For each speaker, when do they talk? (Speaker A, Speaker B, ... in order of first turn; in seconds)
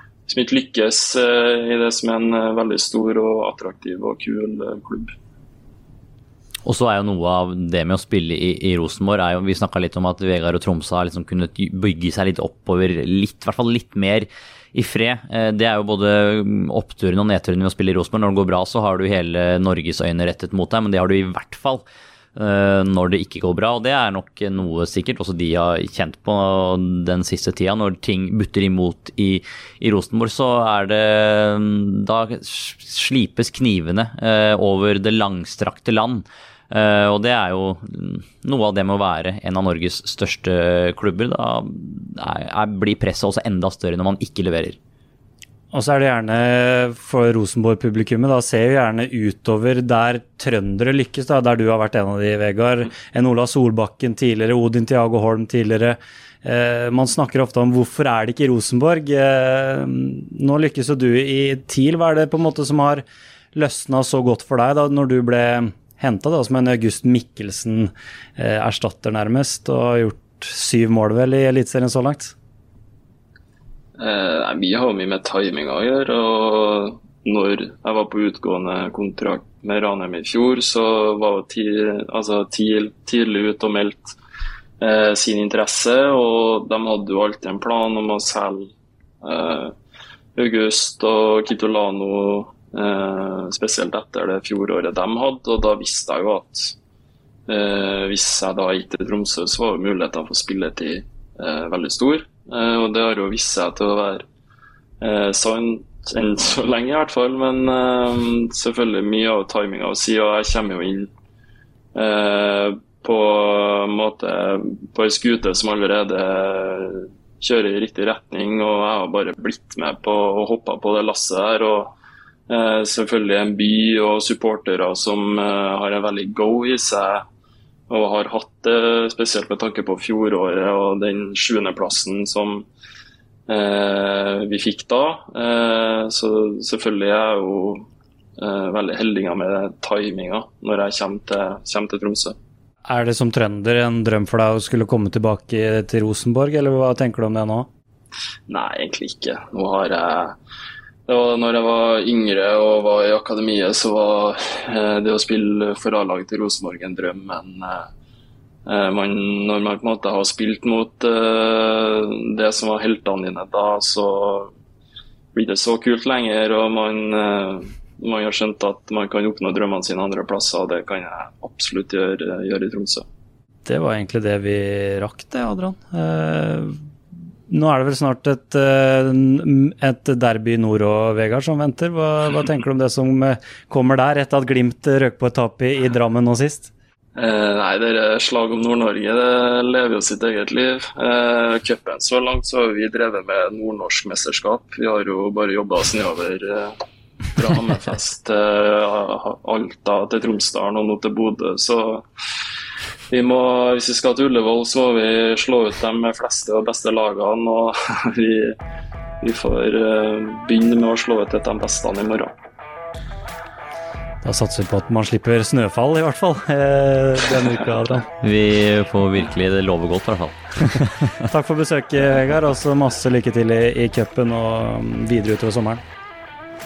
Speaker A: 0.2-5.1, 74.0-84.2, 84.8-89.7, 90.4-96.7, 97.5-104.2, 105.0-111.1, 112.0-121.9, 122.5-127.2, 127.9-132.7, 133.5-137.8, 138.4-142.3, 148.5-150.3, 151.1-157.9, 158.7-164.5, 165.3-173.0, 187.2-196.8, 197.3-202.1, 203.1-208.5, 209.2-212.3
Speaker B: 6.6-21.8, 22.4-44.8, 218.2-221.2
Speaker C: 45.7-72.3, 142.9-147.7, 173.7-176.8, 177.5-186.7, 214.2-218.1, 221.3-225.8